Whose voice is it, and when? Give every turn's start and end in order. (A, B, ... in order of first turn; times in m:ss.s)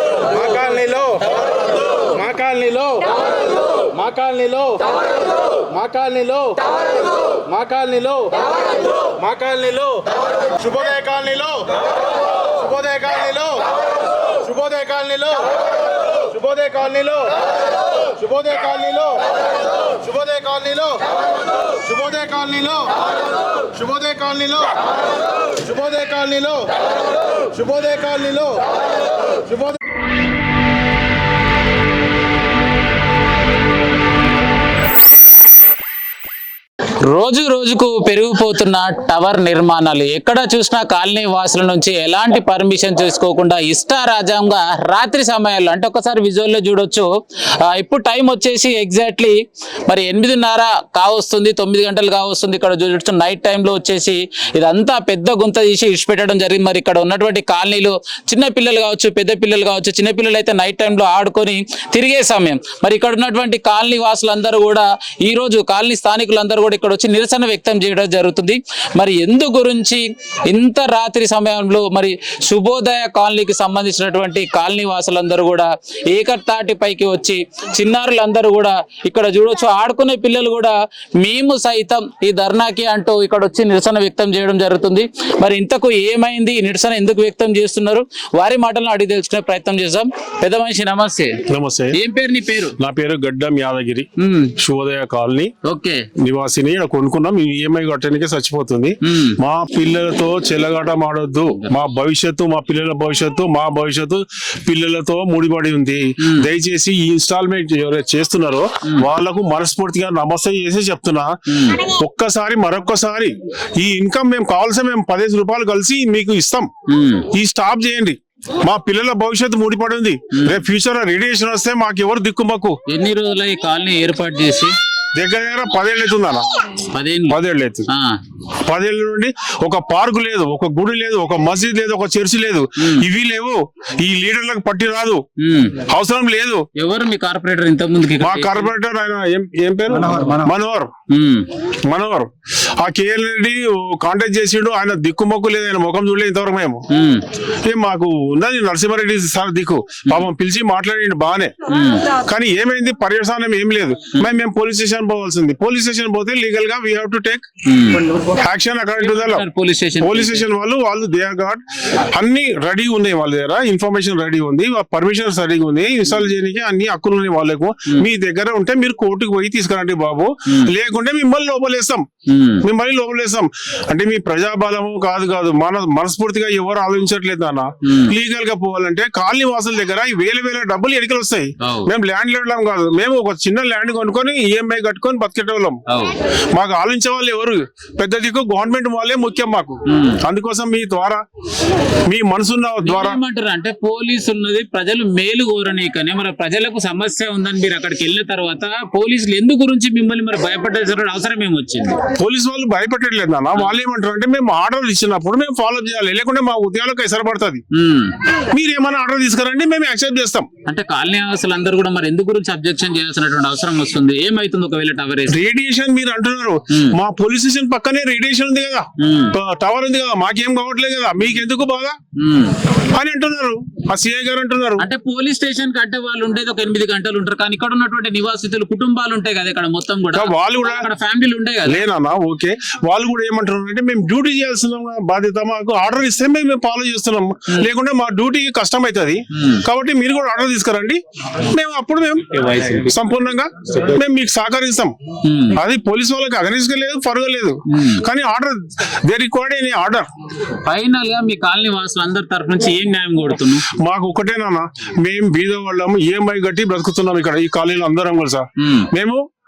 0:00.3-0:01.3 A
0:02.1-0:03.1 A
0:03.9-0:04.8 A
0:05.7-0:06.6 A
0:07.5-0:08.4 A
0:09.2-0:10.0 A
0:10.6-0:11.8 A
0:12.5-0:13.7 A
0:14.4-0:15.5 A
0:16.2-0:17.4 A
0:18.2-0:19.3 A
0:19.9-0:21.0 A
0:21.8-0:23.0 A
0:23.7-0:24.8 A
0:25.6-0:26.8 A
0:27.5-0:28.6 A
0:37.0-0:47.1 B
0:47.6-1:31.4 B
1:31.5-1:32.0 C
1:31.9-1:32.8 B
1:32.8-1:34.1 C
1:34.2-1:34.5 B
1:34.6-1:35.5 C
1:35.6-1:36.0 B
1:36.2-1:56.7 C
1:39.0-1:39.4 B
1:51.5-1:51.8 B
1:56.9-1:57.2 B
1:57.3-2:02.8 C
2:02.9-2:04.7 B
2:05.2-2:06.4 C
2:06.9-2:07.4 B
2:07.3-2:07.8 C
2:07.9-2:08.2 B
2:08.7-2:15.2 C
2:15.4-2:15.8 B
2:15.9-2:16.7 C
2:16.8-2:18.7 B
2:18.2-2:20.9 C
2:21.1-2:21.5 B
2:21.9-2:26.8 C
2:26.9-2:27.2 B
2:27.6-2:31.5 C
2:31.7-2:32.1 B
2:32.2-2:37.5 C
2:37.6-2:38.0 B
2:38.4-2:39.4 C
2:39.0-2:40.4 B
2:40.0-2:41.6 C
2:42.2-2:52.1 C
2:52.3-2:52.6 B
2:52.6-3:05.8 C
2:57.8-2:58.1 B
3:01.6-3:01.9 B
3:05.9-3:06.1 B
3:06.5-3:11.2 C
3:09.9-3:10.2 B
3:12.1-3:13.2 C
3:12.8-3:22.0 B
3:22.2-3:27.6 C
3:27.7-3:28.2 B
3:28.5-3:30.5 C
3:30.7-3:35.4 B
3:35.3-3:42.0 C
3:39.0-3:39.4 B
3:42.2-3:42.6 B
3:42.9-3:44.8 C
3:44.8-3:51.8 B
3:50.1-3:50.9 C
3:51.7-4:04.9 C
3:59.3-3:59.6 B
4:05.2-4:05.6 B
4:05.6-4:10.1 C
4:07.7-4:08.0 B
4:10.7-4:13.7 B
4:13.8-4:19.2 C
4:18.6-4:18.9 B